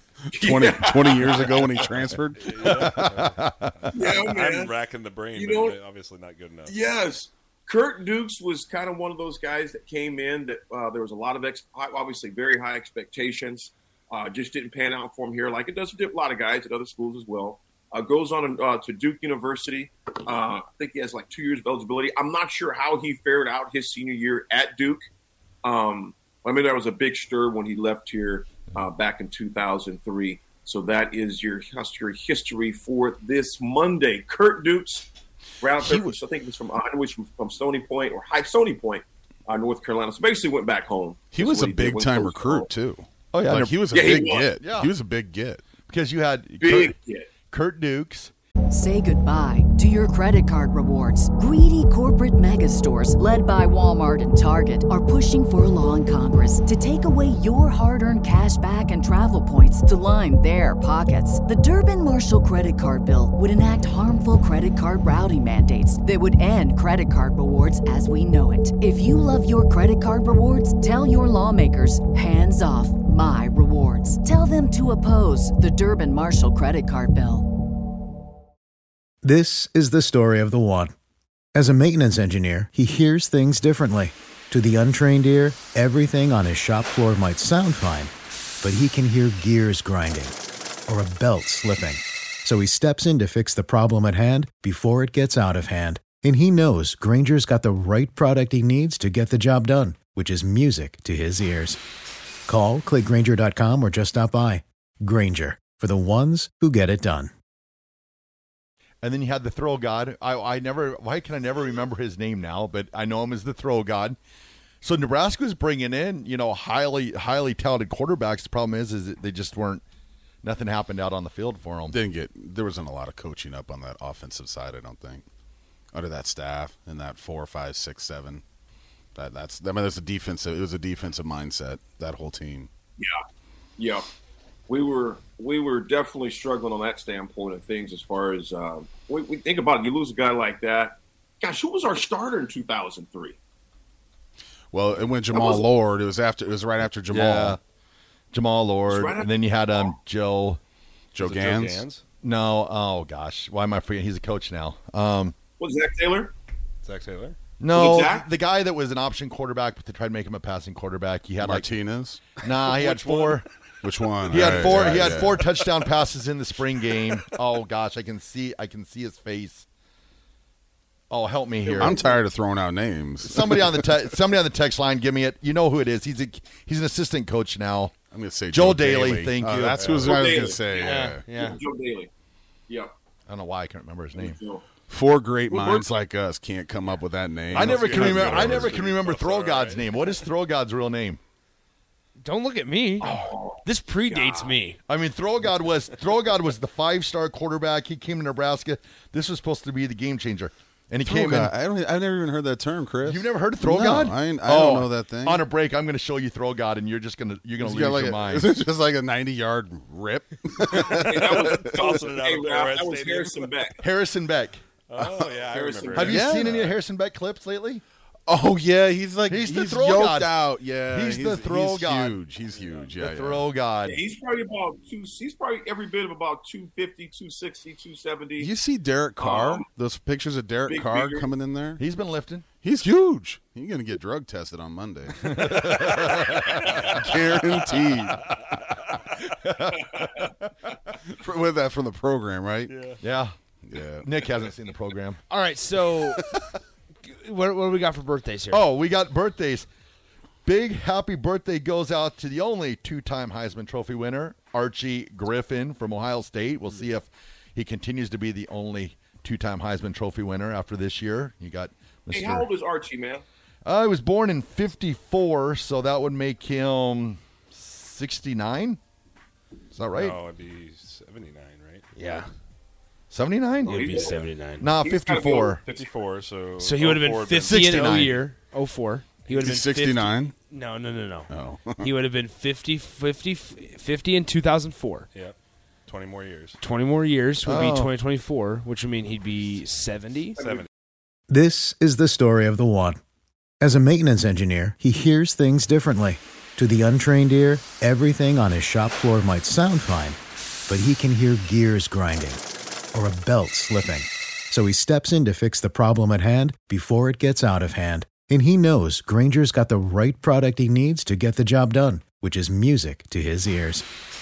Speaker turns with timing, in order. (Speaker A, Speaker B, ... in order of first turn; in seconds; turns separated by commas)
Speaker A: 0.3-2.9, Speaker B: 0.3-1.8, Speaker C: 2.4-6.8, Speaker D: 2.6-3.9, Speaker B: 3.9-4.7, Speaker B: 5.3-5.8, Speaker B: 6.7-25.0, Speaker B: 25.6-35.1, Speaker B: 35.6-42.7, Speaker A: 41.3-45.6, Speaker D: 43.3-43.7, Speaker B: 43.9-44.5, Speaker D: 44.5-44.9, Speaker D: 45.9-46.9, Speaker B: 46.6-47.3, Speaker D: 47.5-48.3, Speaker E: 48.7-77.5, Speaker F: 79.2-80.9, Speaker F: 81.5-90.3, Speaker F: 90.9-101.8, Speaker F: 102.5-107.3, Speaker D: 109.0-114.2, Speaker D: 114.8-119.8, Speaker D: 120.4-122.0, Speaker A: 121.9-125.2, Speaker A: 125.9-128.4, Speaker A: 129.1-132.7, Speaker B: 133.8-134.0, Speaker B: 134.7-143.4, Speaker A: 144.7-147.6, Speaker B: 145.3-145.6, Speaker D: 147.1-147.6, Speaker D: 148.3-150.6, Speaker B: 148.9-149.3, Speaker A: 151.1-151.8, Speaker C: 151.2-152.0, Speaker D: 152.2-155.3, Speaker B: 155.6-156.3, Speaker C: 156.8-157.4, Speaker D: 157.6-161.7, Speaker B: 157.7-158.3, Speaker A: 161.4-162.4, Speaker D: 162.4-163.5, Speaker C: 162.8-163.2, Speaker A: 163.8-165.5, Speaker D: 164.3-169.7, Speaker D: 171.1-172.2, Speaker A: 171.7-173.9, Speaker D: 173.2-177.9, Speaker A: 178.1-181.2, Speaker D: 178.5-179.8, Speaker C: 179.8-180.0, Speaker B: 179.9-182.1, Speaker G: 180.7-181.6, Speaker D: 183.3-184.4, Speaker B: 184.1-184.6, Speaker A: 184.9-188.8, Speaker B: 185.5-185.9, Speaker D: 187.5-191.2, Speaker C: 187.5-190.2, Speaker G: 192.2-193.1, Speaker B: 193.0-194.6, Speaker G: 193.6-194.8, Speaker D: 194.9-201.5, Speaker A: 201.0-205.4, Speaker D: 203.0-208.6, Speaker A: 207.6-211.7, Speaker B: 210.8-213.8, Speaker C: 211.8-213.5, Speaker D: 213.8-214.6, Speaker C: 214.9-216.1, Speaker A: 215.0-215.3, Speaker B: 215.5-216.2, Speaker A: 216.0-216.7, Speaker D: 216.0-217.8, Speaker A: 218.3-223.5, Speaker D: 219.3-222.2, Speaker C: 222.5-222.9, Speaker D: 223.0-224.0, Speaker B: 223.8-228.5, Speaker A: 228.4-231.8, Speaker B: 229.2-229.6, Speaker B: 230.7-231.3, Speaker D: 231.8-232.4, Speaker A: 232.6-235.7, Speaker D: 235.2-236.7, Speaker A: 236.6-238.3, Speaker D: 239.3-240.3, Speaker A: 241.1-242.8, Speaker C: 242.7-243.0, Speaker D: 243.0-243.3, Speaker A: 243.6-244.1, Speaker D: 244.0-245.2, Speaker G: 245.3-246.3, Speaker G: 247.0-248.7, Speaker D: 248.5-249.7, Speaker D: 250.4-262.5, Speaker B: 262.1-263.2, Speaker D: 263.6-268.8, Speaker D: 269.7-270.2, Speaker C: 269.9-271.9, Speaker G: 271.9-272.3, Speaker D: 273.1-274.0, Speaker G: 273.6-274.7, Speaker B: 273.6-274.3, Speaker D: 274.6-275.6, Speaker B: 274.8-275.9, Speaker C: 275.8-277.9, Speaker G: 276.6-285.1, Speaker D: 277.4-278.2, Speaker A: 279.3-280.3, Speaker A: 281.3-281.9, Speaker C: 285.1-286.6, Speaker G: 286.6-290.6, Speaker D: 287.4-287.9, Speaker C: 290.4-290.7, Speaker F: 291.3-293.0, Speaker F: 293.6-302.4, Speaker F: 302.9-313.9